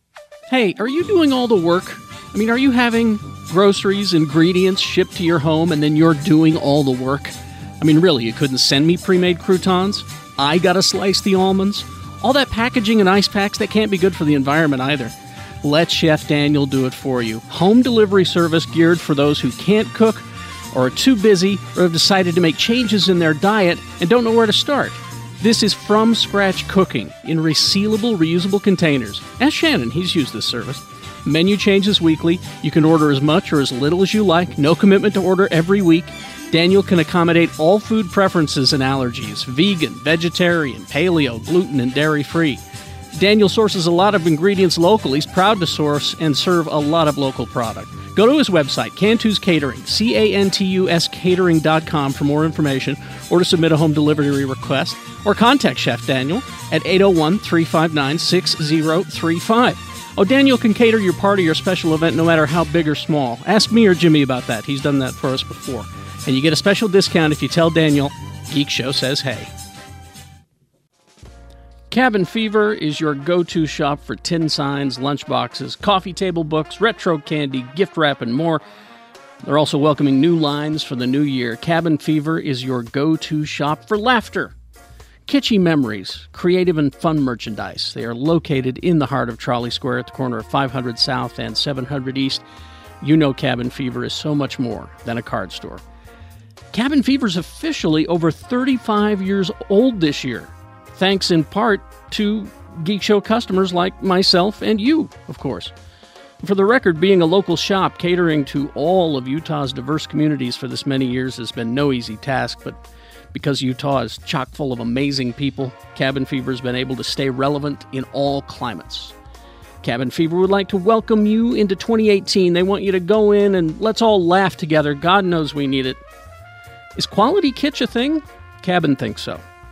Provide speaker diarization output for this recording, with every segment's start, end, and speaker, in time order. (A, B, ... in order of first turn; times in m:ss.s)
0:00.5-0:42.6 A
0:43.1-1:09.5 A
1:11.9-1:18.6 A
1:19.4-1:24.5 A
1:25.3-1:32.4 A
1:33.0-1:35.8 A
1:36.7-1:45.7 A
1:46.4-1:52.8 A
1:53.3-1:59.1 A
1:59.8-2:06.0 A
2:07.0-2:09.4 A